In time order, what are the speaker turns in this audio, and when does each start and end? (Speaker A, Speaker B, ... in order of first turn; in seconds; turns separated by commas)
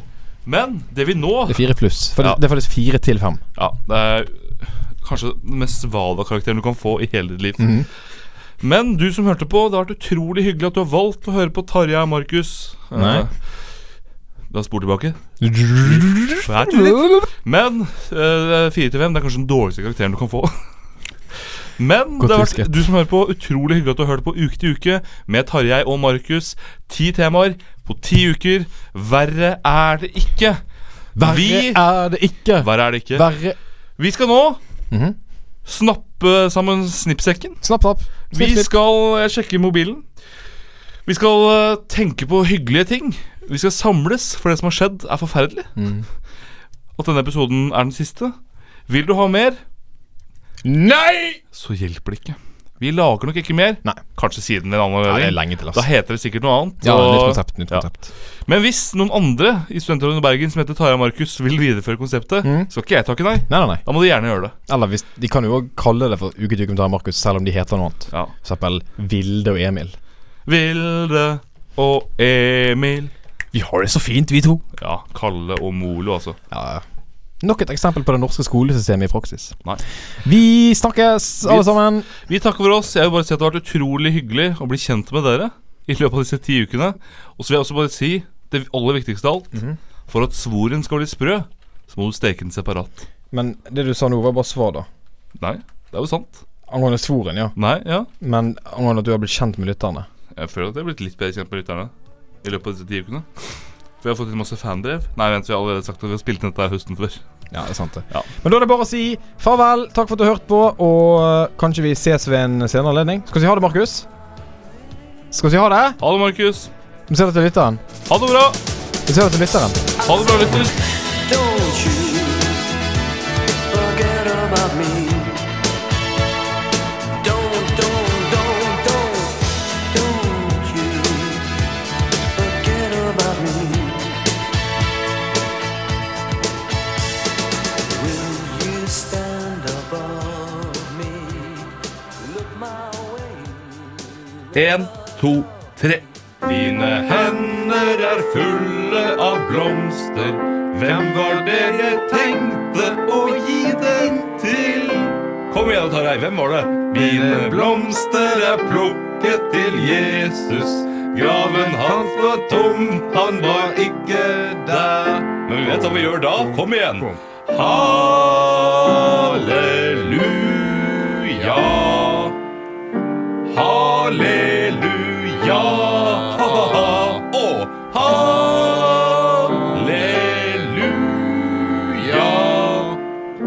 Speaker A: 0.5-1.6, Speaker B: 1.5-3.4, Speaker A: 3.6-7.8, Speaker B: 7.6-7.9, Speaker A: 8.6-13.6, Speaker B: 12.9-13.3, Speaker A: 14.5-15.2, Speaker B: 15.4-17.3, Speaker A: 15.8-20.5, Speaker A: 21.8-30.6, Speaker B: 22.2-22.8, Speaker B: 31.2-33.6, Speaker A: 31.2-31.8, Speaker A: 32.6-33.3, Speaker A: 34.0-34.6, Speaker B: 34.9-35.2, Speaker A: 35.7-37.6, Speaker B: 37.6-38.7, Speaker A: 38.3-40.1, Speaker A: 41.1-45.8, Speaker B: 45.8-46.0, Speaker A: 47.0-48.4, Speaker A: 48.9-49.6, Speaker B: 50.6-51.4, Speaker A: 51.5-57.9, Speaker B: 55.0-55.9, Speaker B: 56.8-58.1, Speaker A: 58.5-64.5, Speaker B: 62.4-62.7, Speaker B: 63.5-63.8, Speaker B: 64.7-70.0, Speaker A: 70.5-73.1, Speaker B: 73.5-74.6, Speaker A: 74.8-76.4, Speaker B: 76.5-76.8, Speaker B: 77.4-79.6, Speaker B: 80.2-82.1, Speaker A: 81.4-93.0, Speaker B: 93.3-94.9, Speaker A: 95.4-96.4, Speaker B: 96.7-97.5, Speaker A: 97.6-98.1, Speaker B: 98.2-100.1, Speaker A: 100.3-101.9, Speaker A: 102.4-103.5, Speaker A: 104.0-107.2, Speaker B: 107.5-114.1, Speaker B: 115.3-116.0, Speaker A: 116.0-116.7, Speaker B: 117.1-117.8, Speaker A: 118.1-118.6, Speaker B: 119.1-119.8, Speaker A: 120.0-120.7, Speaker C: 120.0-122.7, Speaker C: 123.7-125.5, Speaker C: 127.2-131.6, Speaker C: 132.2-134.3, Speaker C: 137.9-145.4, Speaker A: 144.5-172.4, Speaker A: 173.5-183.0